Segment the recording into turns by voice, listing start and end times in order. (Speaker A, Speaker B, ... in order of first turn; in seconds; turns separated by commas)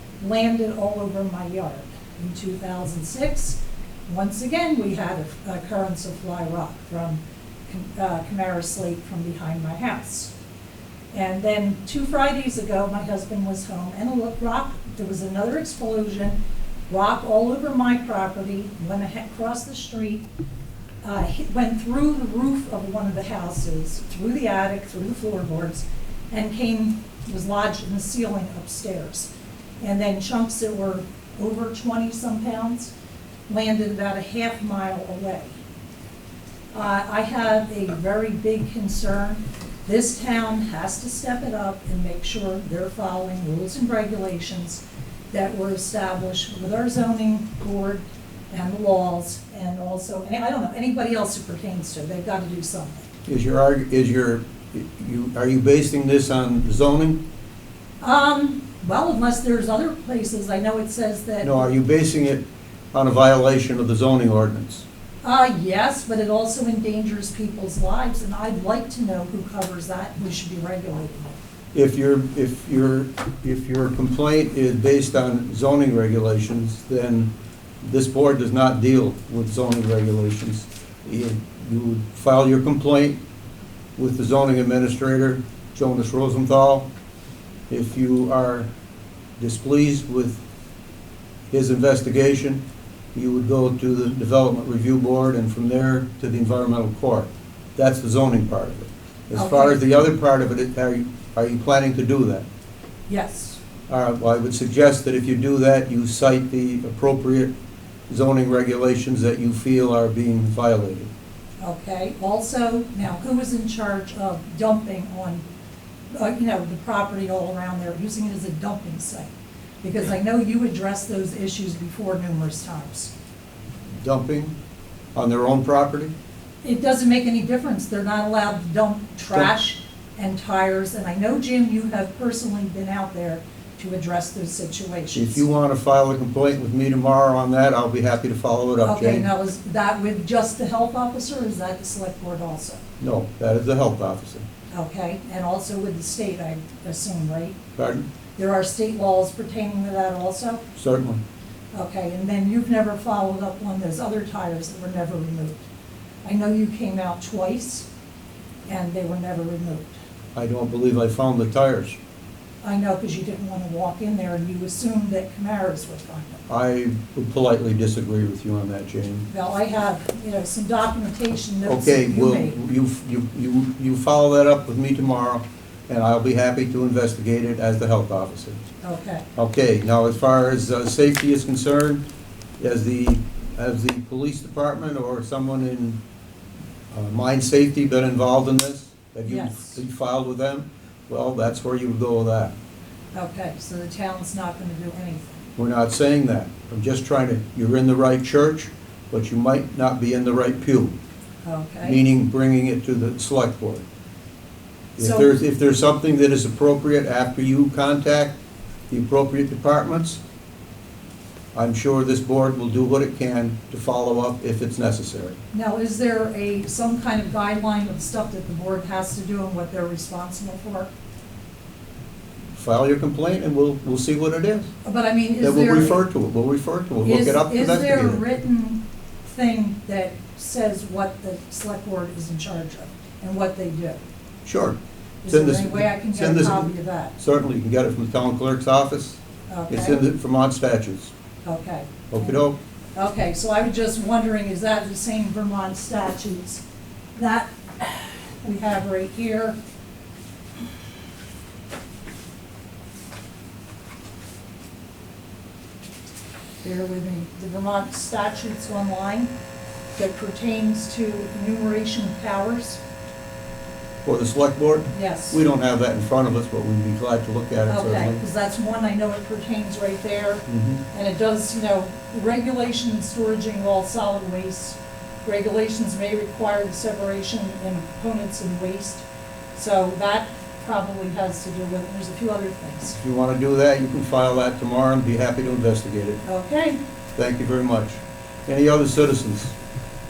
Speaker A: 0.2-10.3, Speaker A: 11.1-16.4, Speaker A: 16.9-20.3, Speaker A: 21.0-29.3, Speaker A: 29.8-32.9, Speaker A: 33.5-35.6, Speaker A: 36.7-53.1, Speaker B: 53.3-57.2, Speaker A: 58.0-61.7, Speaker B: 61.4-64.8, Speaker A: 65.2-71.4, Speaker B: 71.7-77.3, Speaker B: 77.8-83.2, Speaker B: 84.0-86.9, Speaker B: 87.7-88.7, Speaker B: 89.4-90.4, Speaker B: 91.5-92.6, Speaker B: 93.2-102.5, Speaker A: 99.3-99.8, Speaker A: 103.1-103.6, Speaker B: 103.9-107.5, Speaker B: 108.1-111.1, Speaker A: 111.6-115.5, Speaker A: 116.1-123.1, Speaker B: 124.0-124.6, Speaker B: 125.2-126.1, Speaker A: 126.6-135.4, Speaker B: 135.1-139.3, Speaker A: 138.8-142.8, Speaker B: 143.0-144.4, Speaker A: 144.7-147.6, Speaker B: 147.8-148.1, Speaker A: 148.4-150.7, Speaker B: 150.8-151.2, Speaker A: 151.7-155.6, Speaker A: 156.2-157.9, Speaker A: 158.7-160.0, Speaker B: 160.3-162.0, Speaker A: 162.6-166.4, Speaker B: 166.5-169.3, Speaker A: 169.3-172.6, Speaker B: 171.7-178.6, Speaker A: 178.8-179.2, Speaker B: 179.4-182.1, Speaker B: 182.6-186.0, Speaker B: 186.9-192.5, Speaker A: 189.3-189.8, Speaker A: 193.1-195.4, Speaker B: 195.6-201.0, Speaker A: 201.4-202.0, Speaker B: 201.8-203.9, Speaker A: 205.0-205.3, Speaker B: 205.0-208.3, Speaker B: 208.9-210.2, Speaker B: 211.6-215.4, Speaker A: 215.5-220.9, Speaker B: 222.6-224.7, Speaker A: 224.8-226.0, Speaker B: 225.4-228.2, Speaker A: 227.0-234.0, Speaker B: 234.4-241.1, Speaker A: 235.2-237.2, Speaker A: 239.5-240.0, Speaker A: 241.4-242.4, Speaker B: 242.1-242.6, Speaker A: 242.9-246.6, Speaker A: 247.2-249.6, Speaker A: 256.6-259.3, Speaker A: 260.0-262.8, Speaker B: 264.1-268.2, Speaker A: 264.9-265.4, Speaker A: 267.7-283.0, Speaker B: 270.5-270.8, Speaker B: 283.0-286.2, Speaker A: 286.2-286.8, Speaker B: 287.2-289.6